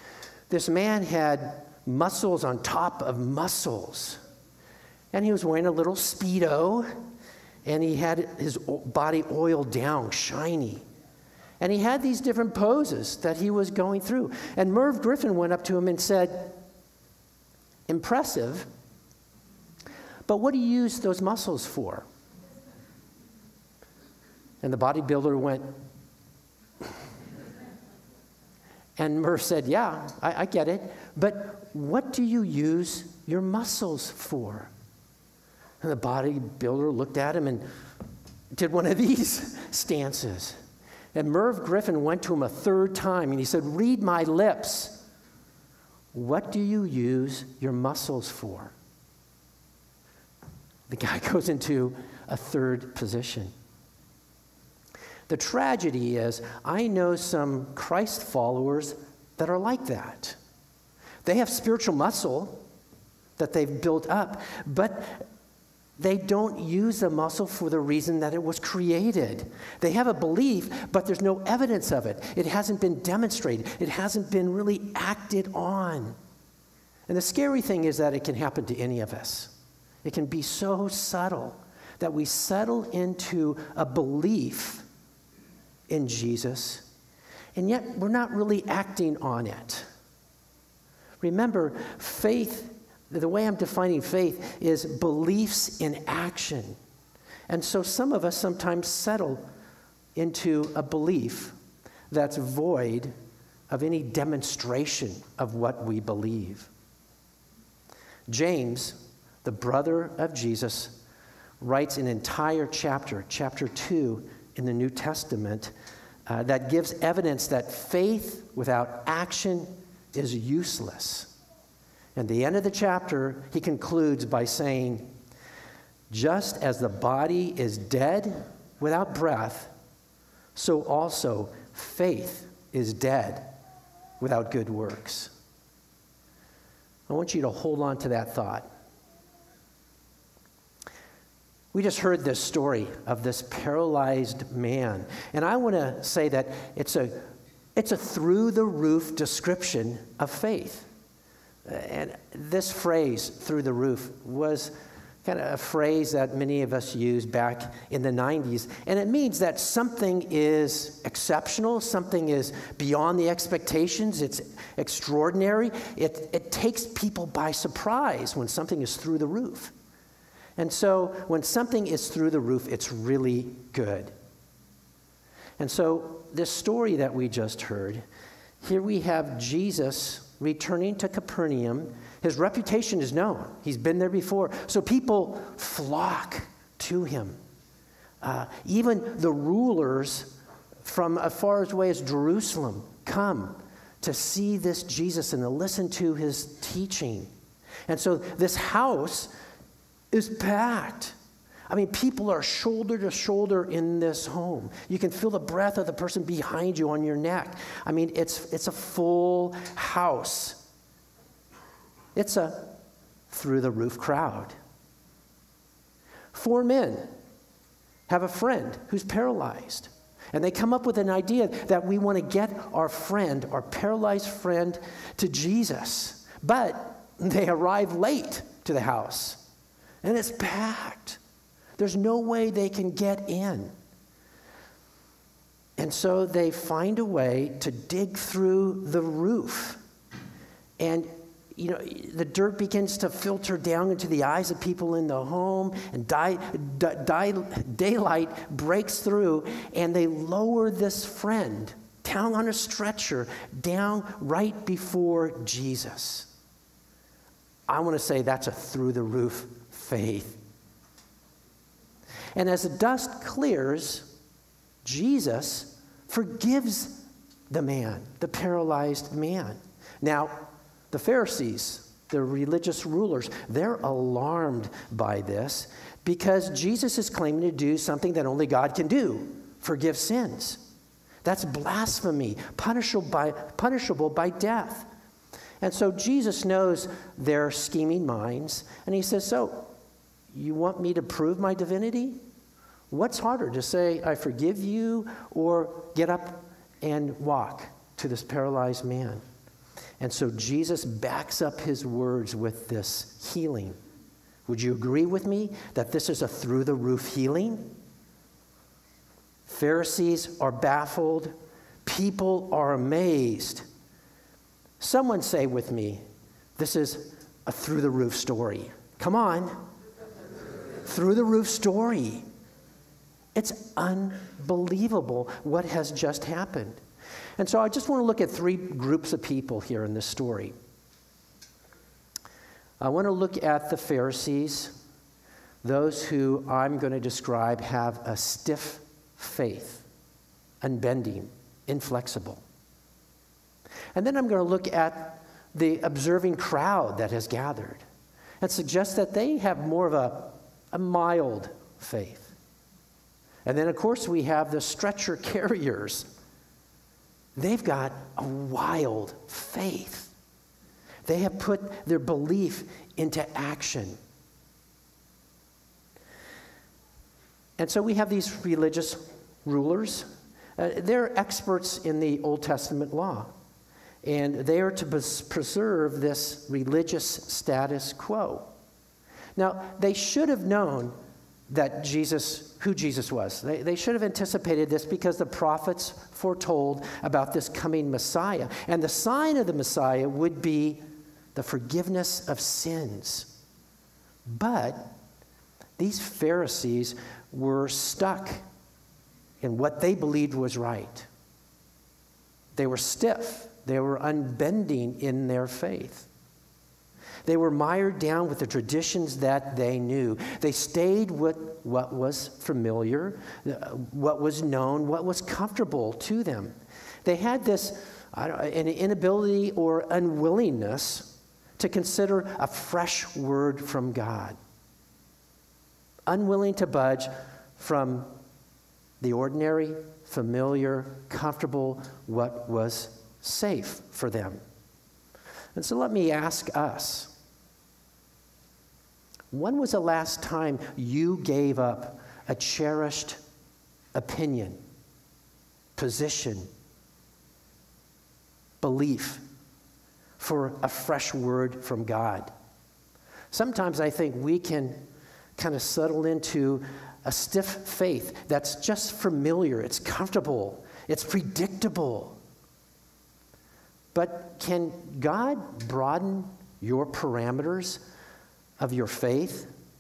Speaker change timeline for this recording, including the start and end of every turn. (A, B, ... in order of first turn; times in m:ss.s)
0:00.5-0:04.2 A
0:05.1-0:06.9 A
0:07.6-0:10.8 A
0:11.6-0:16.6 A
0:17.9-0:18.7 A
0:20.3-0:22.1 A
0:24.6-0:25.8 A
0:29.0-0:34.7 A
0:35.8-0:37.6 A
0:38.5-0:40.6 A
0:41.1-0:45.0 A
0:46.1-0:48.7 A
0:50.9-0:53.5 A
0:55.3-1:00.4 A
1:01.2-1:02.6 A
1:03.4-1:05.3 A
1:06.0-1:16.2 A
1:17.1-1:19.5 A
1:20.0-1:24.8 A
1:25.9-1:26.9 A
1:27.6-1:29.9 A
1:31.2-1:36.8 A
1:37.5-1:39.4 A
1:40.2-1:41.6 A
1:42.1-1:43.1 A
1:43.7-1:46.7 A
1:48.3-1:51.0 A
1:51.6-1:55.7 A
1:56.3-2:01.3 A
2:02.2-2:05.1 A
2:06.1-2:09.7 A
2:10.6-2:13.6 A
2:14.2-2:15.3 A
2:17.1-2:18.7 A
2:21.7-2:30.9 A
2:31.7-2:34.7 A
2:35.2-2:49.7 A
2:50.6-2:54.1 A
2:55.6-2:58.0 A
2:58.6-3:07.4 A
3:08.2-3:17.3 A
3:17.9-3:19.3 A
3:20.1-3:21.2 A
3:21.7-3:30.6 A
3:32.2-3:32.8 A
3:33.3-3:34.6 A
3:36.3-3:37.1 A
3:38.1-3:49.4 A
3:50.0-3:51.2 A
3:51.8-3:53.7 A
3:55.8-3:59.8 A
4:00.8-4:16.3 A
4:17.7-4:20.4 A
4:22.4-4:24.1 A
4:24.8-4:40.6 A
4:41.2-4:44.9 A
4:45.6-4:49.7 A
4:50.3-4:52.2 A
4:52.9-4:59.2 A
5:00.0-5:03.8 A
5:04.5-5:07.8 A
5:09.5-5:11.3 A
5:11.8-5:13.7 A
5:14.8-5:16.0 A
5:16.6-5:19.6 A
5:20.8-5:22.2 A
5:23.4-5:26.8 A
5:27.4-5:30.5 A
5:32.8-5:34.8 A
5:35.6-5:39.8 A
5:40.6-5:42.4 A
5:44.0-5:47.8 A
5:48.4-5:52.3 A
5:53.4-5:56.1 A
5:57.4-6:00.1 A
6:01.1-6:04.0 A
6:07.6-6:13.3 A
6:14.0-6:18.5 A
6:19.4-6:20.9 A
6:21.5-6:30.8 A
6:31.4-6:33.3 A
6:34.3-6:34.9 A
6:35.8-6:38.4 A
6:39.4-6:41.1 A
6:42.6-6:46.1 A
6:47.2-7:04.4 A
7:06.1-7:08.1 A
7:09.0-7:14.4 A
7:15.6-7:17.1 A
7:19.3-7:23.2 A
7:23.9-7:24.6 A
7:25.8-7:26.5 A
7:28.6-7:29.2 A
7:30.2-7:32.3 A
7:33.3-7:34.8 A
7:35.4-7:42.2 A
7:43.9-7:47.8 A
7:48.6-7:49.5 A